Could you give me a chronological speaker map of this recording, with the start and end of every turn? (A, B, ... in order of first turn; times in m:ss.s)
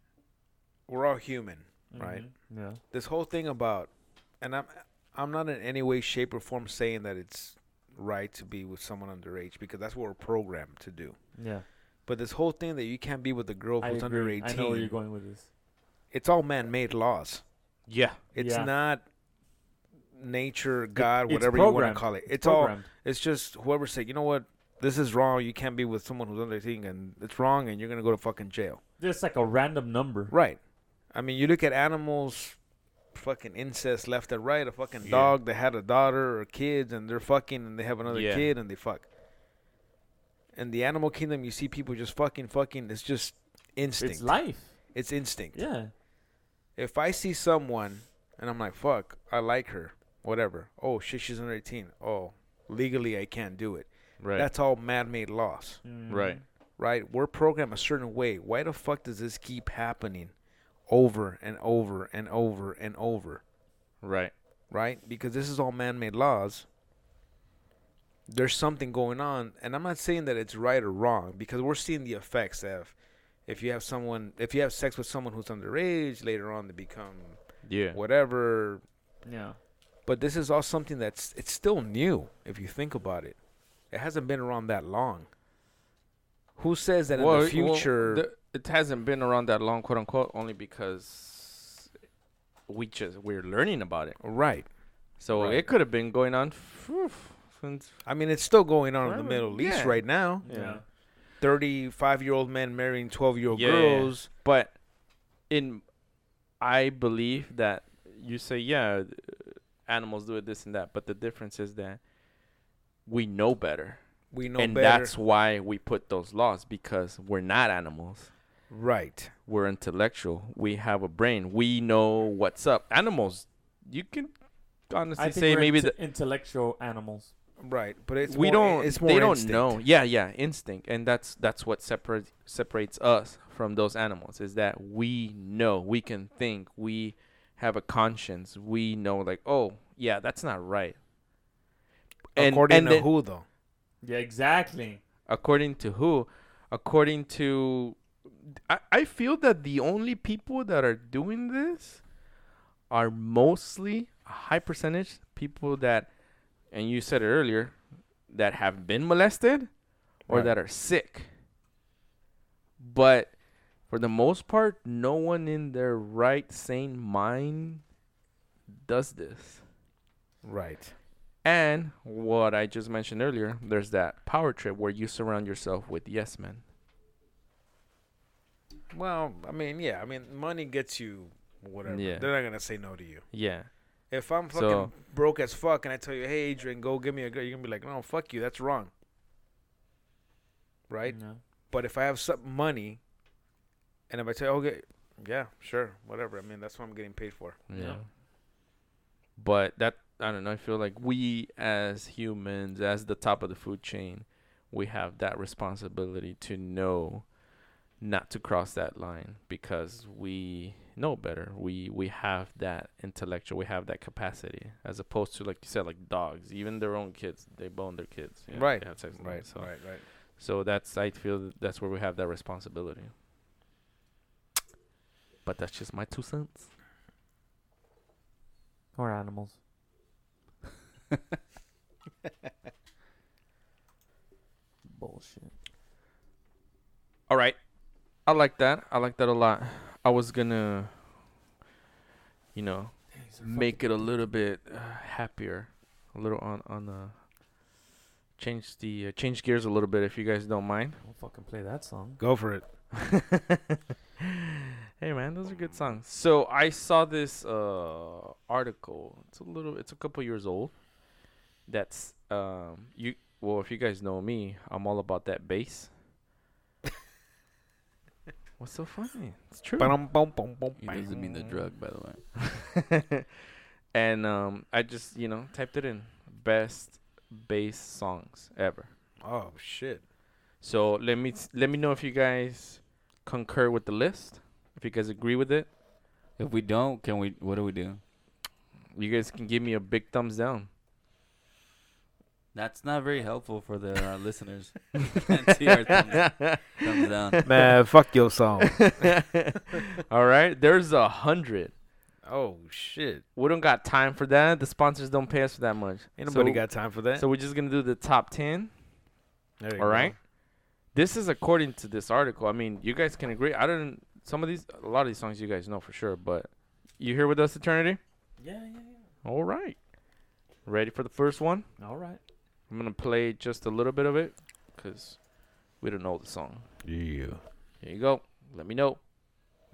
0:00.9-0:11.2 A
0:01.9-0:02.8 B
0:11.4-0:11.6 B
0:12.0-0:14.9 A
0:13.8-0:15.4 B
0:16.1-0:17.4 A
0:17.9-0:18.2 C
0:18.3-0:19.0 A
0:18.4-0:18.7 B
0:20.1-0:28.8 A
0:21.0-0:22.9 B
0:29.0-0:30.3 B
0:30.3-0:30.6 A
0:31.1-0:32.6 A
0:33.1-0:39.1 A
0:35.0-0:35.4 C
0:38.1-0:38.5 C
0:40.5-0:45.6 A
0:44.0-0:44.8 B
0:45.5-0:45.9 B
0:46.8-0:55.8 A
0:54.2-0:54.5 C
0:55.8-0:56.4 B
0:56.1-0:56.4 C
0:56.8-1:00.3 A
1:00.9-1:03.4 A
1:04.0-1:04.3 C
1:04.7-1:06.6 A
1:08.3-1:18.8 A
1:17.6-1:18.0 C
1:19.2-1:19.6 B
1:20.0-1:23.4 A
1:23.9-1:25.3 A
1:26.6-1:28.2 A
1:27.1-1:31.9 C
1:32.7-1:34.2 C
1:34.2-1:35.6 A
1:35.2-1:37.9 C
1:38.0-1:40.4 A
1:39.0-1:40.8 C
1:40.4-1:40.8 B
1:41.4-1:44.3 A
1:43.5-1:44.8 C
1:45.5-1:45.8 C
1:46.6-1:52.0 C
1:53.0-1:54.0 C
1:54.3-1:55.1 A
1:54.5-1:58.3 C
1:58.7-1:59.3 A
1:59.5-2:04.3 C
2:04.9-2:05.9 C
2:05.2-2:07.3 B
2:07.6-2:09.8 A
2:08.2-2:21.0 C
2:22.3-2:23.4 A
2:22.4-2:23.1 C
2:24.0-2:25.0 B
2:25.3-2:28.0 C
2:28.5-2:32.0 C
2:32.9-2:36.1 C
2:36.7-2:37.8 C
2:38.3-2:39.7 C
2:40.2-2:41.3 C
2:40.3-2:40.5 A
2:42.8-2:47.8 C
2:48.8-2:49.6 C
2:50.4-2:50.9 A
2:51.4-2:56.6 C
2:58.9-3:03.3 A
3:01.8-3:02.3 C
3:03.3-3:03.7 C
3:04.1-3:08.9 A
3:04.5-3:04.9 C
3:10.9-3:11.2 A
3:11.0-3:11.4 B
3:11.7-3:13.0 A
3:14.1-3:17.6 A
3:17.7-3:18.0 C
3:17.7-3:18.0 B
3:19.4-3:27.4 C
3:28.0-3:43.1 C
3:38.5-3:40.0 A
3:45.4-3:46.7 C
3:49.0-3:49.6 B
3:54.9-3:55.5 B
3:57.3-3:57.6 C
3:58.2-4:00.9 C
4:02.5-4:07.1 C
4:03.1-4:03.9 B
4:08.4-4:11.0 C
4:11.0-4:12.2 B
4:12.2-4:12.6 A
4:12.9-4:14.3 C
4:15.0-4:20.8 C
4:21.7-4:25.9 C
4:28.6-4:30.0 C
4:29.8-4:31.0 A
4:30.8-4:32.2 D
4:31.1-4:31.6 C
4:32.4-4:33.2 C
4:33.9-4:38.9 C
4:39.2-4:40.0 A
4:40.6-4:45.7 C
4:46.4-4:48.0 D
4:48.9-4:50.7 C
4:52.5-4:57.4 D
4:55.6-4:57.7 C
4:57.4-4:58.9 A
4:58.6-5:01.7 C
5:02.2-5:03.2 A
5:03.4-5:08.7 C
5:06.2-5:07.2 A
5:09.6-5:10.1 A
5:09.8-5:10.2 C
5:10.9-5:18.0 C
5:18.4-5:19.0 B
5:19.2-5:19.8 C
5:20.6-5:21.6 C
5:21.8-5:22.2 B
5:22.7-5:25.2 C
5:25.8-5:26.6 C
5:26.8-5:27.4 A
5:27.8-5:29.0 C